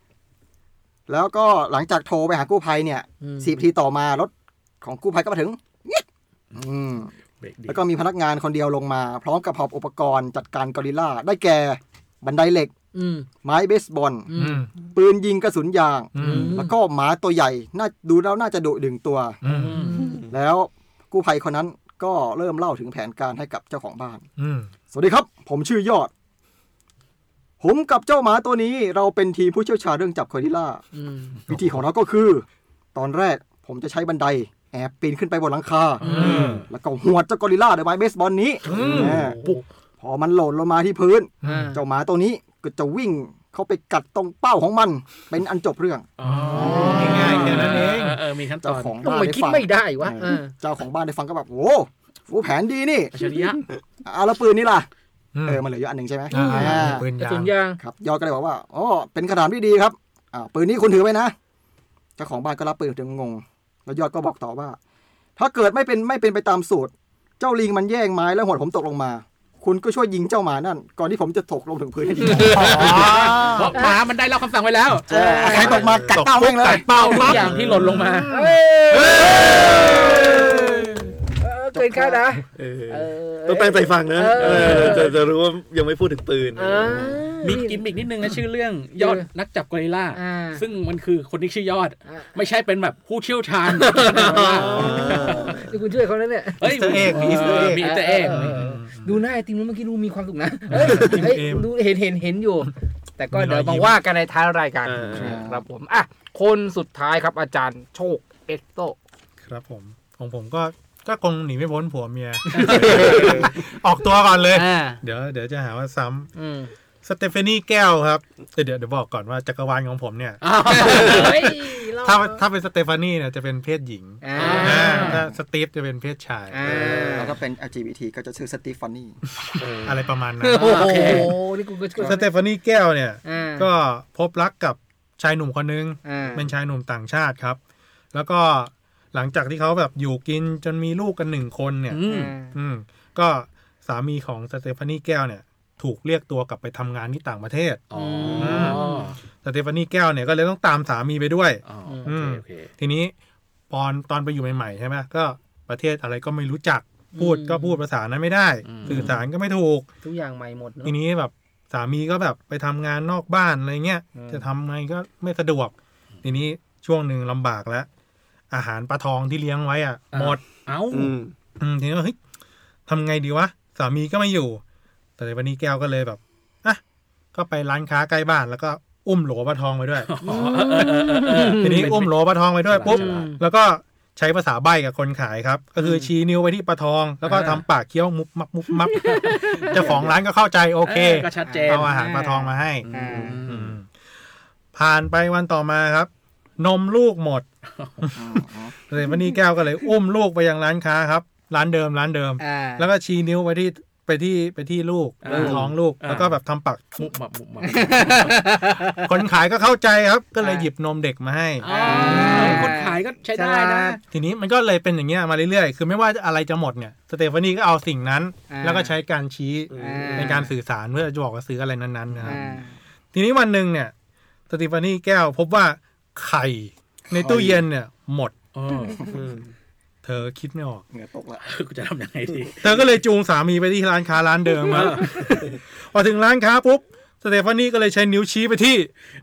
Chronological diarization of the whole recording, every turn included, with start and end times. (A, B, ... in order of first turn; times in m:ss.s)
0:01.1-0:07.1 A
0:03.2-0:03.6 B
0:07.4-0:07.8 C
0:07.7-0:12.7 A
0:12.9-0:13.3 B
0:13.4-0:19.4 A
0:14.3-0:14.7 B
0:14.4-0:14.7 D
0:16.2-0:16.6 D
0:16.2-0:16.8 B
0:19.4-0:19.9 D
0:19.5-0:20.2 B
0:19.7-0:20.1 C
0:20.3-0:24.3 A
0:24.4-0:24.7 D
0:24.9-0:26.1 A
0:27.6-0:30.8 A
0:30.9-0:31.4 B
0:31.5-0:47.6 A
0:31.5-0:31.8 D
0:36.0-0:36.7 D
0:36.1-0:36.6 B
0:36.1-0:36.5 C
0:38.7-0:39.3 D
0:38.8-0:39.6 C
0:41.4-0:41.8 D
0:41.5-0:41.8 B
0:46.2-0:49.0 C
0:46.2-0:48.2 D
0:46.6-0:47.6 B
0:48.6-0:53.1 A
0:49.0-0:50.5 B
0:53.1-0:53.6 C
0:54.0-0:54.9 A
0:55.4-0:55.6 D
0:55.5-0:57.1 A
0:56.3-0:57.8 B
0:56.3-0:57.5 D
0:57.8-1:01.3 A
1:02.2-1:04.8 A
1:05.4-1:13.1 A
1:12.2-1:14.0 B
1:12.6-1:13.7 D
1:12.8-1:15.8 C
1:15.1-1:17.0 A
1:15.1-1:15.8 B
1:15.9-1:16.2 E
1:16.1-1:18.5 D
1:16.7-1:18.3 C
1:18.3-1:25.2 B
1:21.7-1:22.3 A
1:22.6-1:27.2 E
1:24.4-1:25.0 C
1:26.6-1:27.8 B
1:27.4-1:35.6 C
1:29.0-1:29.3 B
1:30.1-1:30.6 B
1:32.1-1:32.3 B
1:33.8-1:49.0 B
1:34.2-1:35.6 E
1:34.8-1:35.3 D
1:36.6-1:38.6 C
1:36.6-1:39.2 D
1:40.7-1:41.7 D
1:40.9-1:41.3 E
1:43.3-1:44.0 D
1:44.8-1:45.4 E
1:45.1-1:45.6 A
1:49.5-1:56.3 D
1:52.5-1:53.4 C
1:52.6-1:53.5 B
1:54.5-1:55.0 B
1:56.4-1:56.7 B
1:57.0-2:00.4 D
2:00.4-2:01.6 C
2:00.7-2:02.4 B
2:00.9-2:01.2 D
2:01.8-2:06.8 D
2:04.2-2:05.2 B
2:04.4-2:05.2 C
2:06.5-2:07.4 B
2:06.7-2:07.2 E
2:06.7-2:09.2 A
2:09.8-2:11.2 D
2:10.4-2:12.2 B
2:10.5-2:11.3 C
2:12.0-2:17.6 D
2:13.2-2:13.7 B
2:16.0-2:16.5 B
2:18.1-2:27.8 D
2:21.9-2:22.3 C
2:22.1-2:22.6 B
2:27.9-2:29.2 C
2:27.9-2:29.1 B
2:28.4-2:28.9 D
2:29.4-2:33.1 D
2:31.6-2:32.7 C
2:31.9-2:32.2 B
2:33.7-2:39.8 D
2:37.1-2:37.8 B
2:38.6-2:39.2 C
2:40.0-2:41.0 B
2:40.8-2:47.9 D
2:44.1-2:44.5 B
2:48.5-2:50.4 D
2:50.1-2:51.2 C
2:50.9-2:51.4 E
2:51.6-2:52.2 D
2:52.9-2:54.6 D
2:55.2-2:56.8 D
2:57.3-3:00.1 D
3:00.0-3:02.1 C
3:00.2-3:02.0 B
3:01.6-3:13.9 D
3:02.6-3:03.3 C
3:02.8-3:03.4 B
3:05.8-3:06.1 C
3:07.2-3:07.6 C
3:09.0-3:10.0 C
3:09.8-3:10.1 A
3:10.8-3:11.9 C
3:11.4-3:13.4 B
3:12.8-3:13.8 C
3:14.8-3:17.4 D
3:17.8-3:18.1 C
3:18.2-3:18.7 A
3:18.9-3:27.0 D
3:22.4-3:22.9 B
3:25.2-3:26.4 C
3:25.3-3:25.7 B
3:27.0-3:28.4 C
3:27.6-3:29.1 B
3:29.0-3:32.7 D
3:30.4-3:30.7 B
3:31.6-3:34.0 C
3:31.7-3:34.0 B
3:34.1-3:42.5 D
3:38.5-3:39.0 B
3:39.7-3:40.4 E
3:39.8-3:40.5 B
3:42.2-3:42.8 B
3:43.1-3:43.9 D
3:44.5-3:48.3 D
3:47.1-3:47.6 A
3:48.5-3:49.0 C
3:49.1-3:49.5 E
3:50.0-3:50.8 D
3:50.9-3:51.4 A
3:51.4-3:52.6 C
3:52.6-3:58.9 D
3:54.7-3:55.3 C